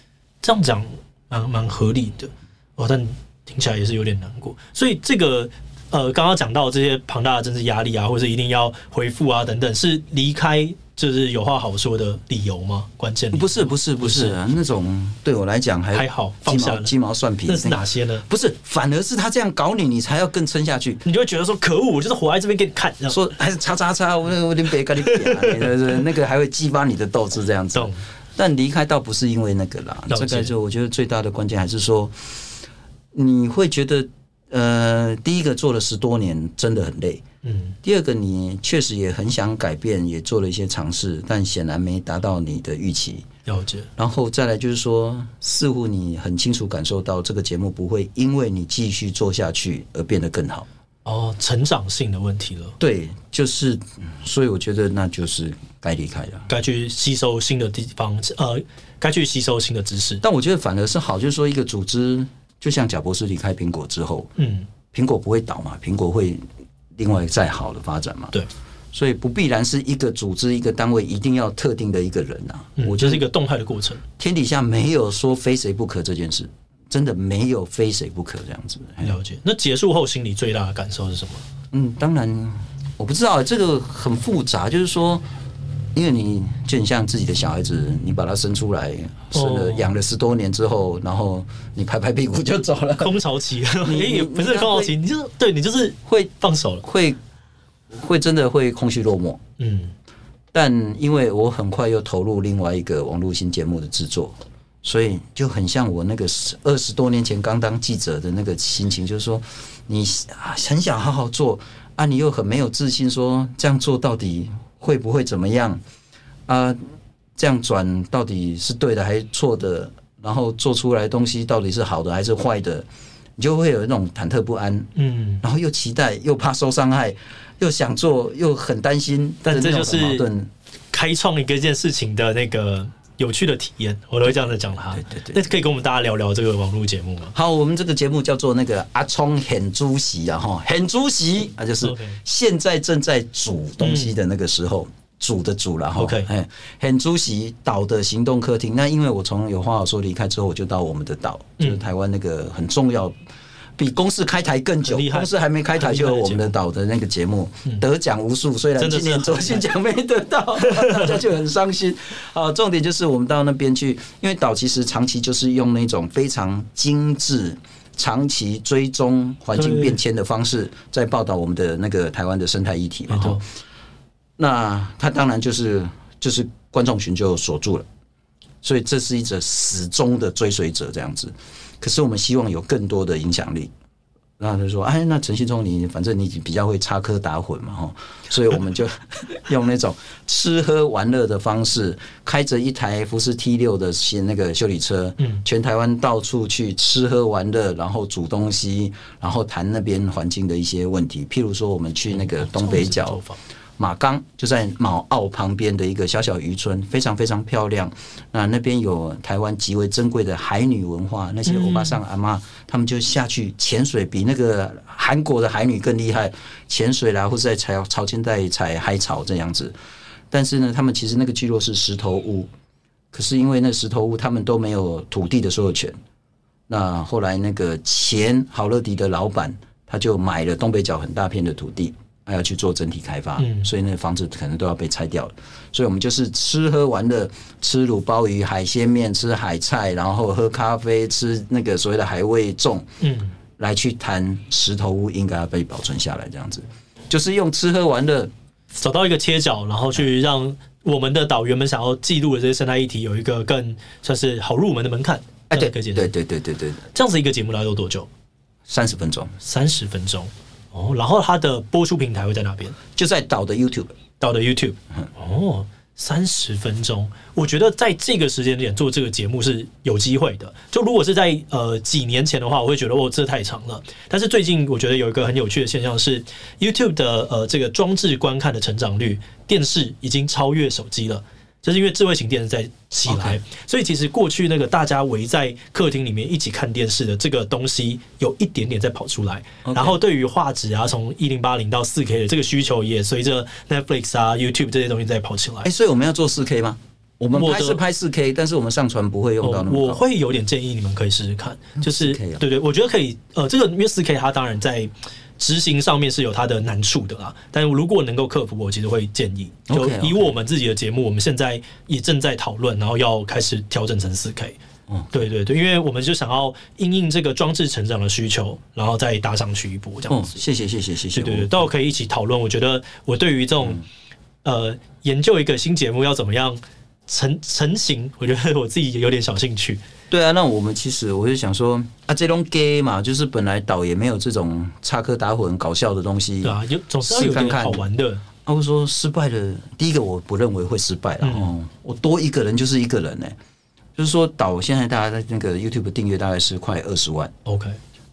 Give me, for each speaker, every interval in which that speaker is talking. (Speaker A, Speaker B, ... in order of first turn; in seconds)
Speaker A: 0.4-14.4, 15.9-16.9, 17.4-18.2, 21.0-23.2, 25.0-25.7, 27.7-28.0, 30.1-30.5, 37.4-37.8, 43.5-43.9, 51.0-52.7, 56.5-60.2, 64.4-64.7, 72.8-74.0, 79.0-81.4, 89.3-89.9, 93.0-96.8, 99.6-99.9, 125.0-125.4, 129.4-130.3, 130.9-137.3, 141.8-142.2, 143.8-144.1, 146.0-146.3, 154.9-156.5, 158.8-159.6, 160.6-161.1, 169.6-170.0, 173.1-173.4, 195.2-195.4, 202.1-203.4, 211.5-212.0, 233.4-233.7, 243.0-243.3, 248.7-256.1, 256.9-258.1, 259.4-262.8, 264.2-295.7, 297.3-297.8, 299.4-314.6, 315.1-320.3, 321.1-323.8, 324.4-329.8, 336.4-338.2, 341.2-341.5, 347.4-347.8
Speaker B: 13.3-21.0, 23.1-32.2, 33.1-37.2, 37.8-43.2, 44.0-50.7, 52.8-56.5, 60.2-64.3, 64.9-66.4, 67.0-68.3, 68.9-73.2, 74.2-79.1, 81.7-85.3, 85.9-93.2, 93.8-94.9, 96.0-96.3, 96.8-97.2, 97.9-99.4, 100.5-115.8, 116.5-116.8, 117.3-124.9, 125.4-130.5, 134.9-135.4, 137.3-153.1, 153.8-173.4, 174.4-177.9, 178.6-183.7, 184.4-203.2, 203.8-219.7, 220.3-222.5, 223.1-225.9, 226.7-242.8, 243.6-248.3, 255.5-256.8, 258.7-259.3, 262.9-263.9, 283.1-283.4, 289.6-290.0, 295.6-300.0, 301.8-302.4, 309.7-310.2, 320.1-321.6, 330.1-337.9, 338.4-343.3, 344.0-347.3